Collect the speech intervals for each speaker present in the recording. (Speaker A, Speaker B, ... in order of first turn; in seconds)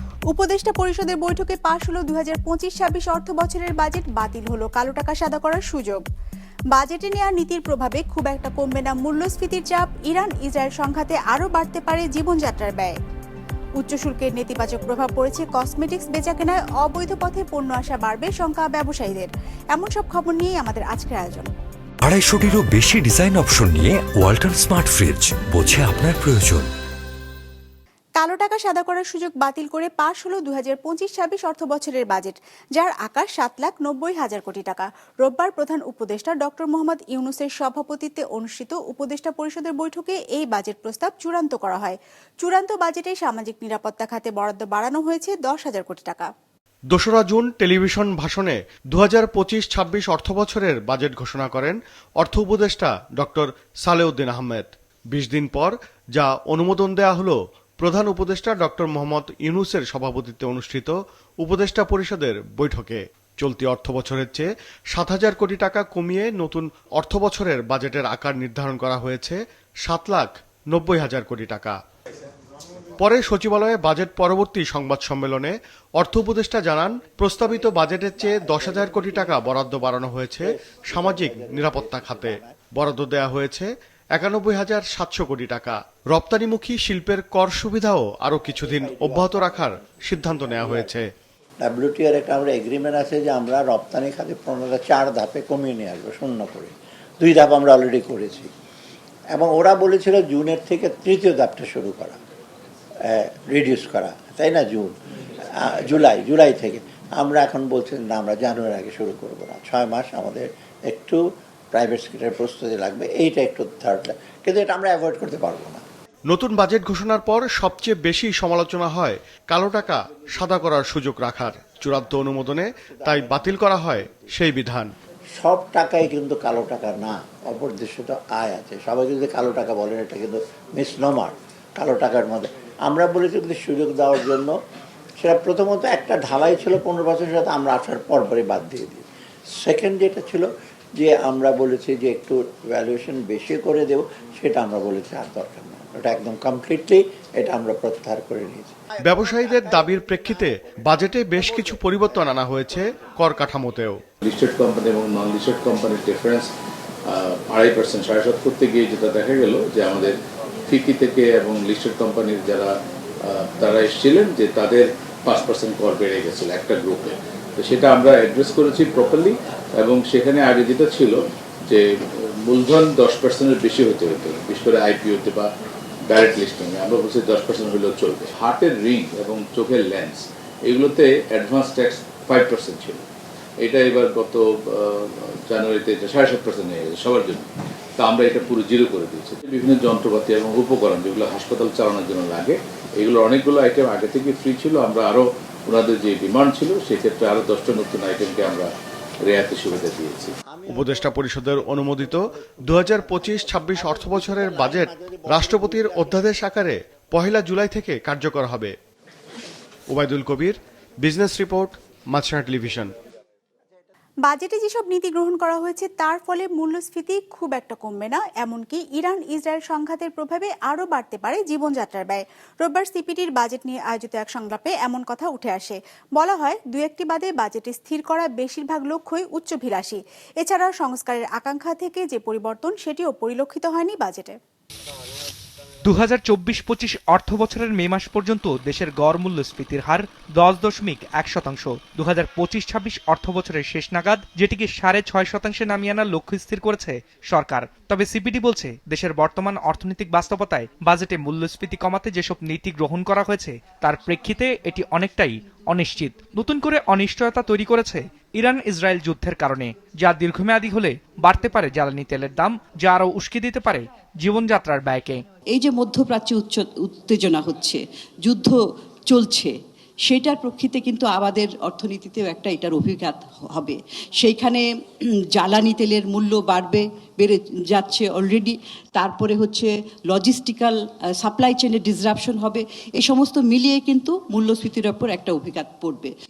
Speaker A: 0.3-6.0, 6.7-13.0, 13.8-21.5, 28.2-46.3, 214.3-234.4
Speaker B: 22.0-26.7
Speaker C: 46.9-71.8, 73.0-91.0, 116.3-124.9, 149.1-154.0, 200.7-208.7, 209.9-212.9
Speaker D: 77.4-82.5, 88.5-91.0, 91.6-98.5, 99.3-102.2, 103.1-104.9, 105.6-115.8, 123.0-123.9, 125.4-134.5, 135.2-139.1, 139.6-148.7, 200.5-206.3
Speaker E: 154.2-156.5, 157.1-162.7, 163.2-171.8, 172.4-175.5, 176.0-183.0, 183.6-198.7, 199.2-200.3
Speaker F: 235.8-265.2
Speaker G: 265.5-268.6, 269.1-269.5, 270.1-274.6, 275.3-286.1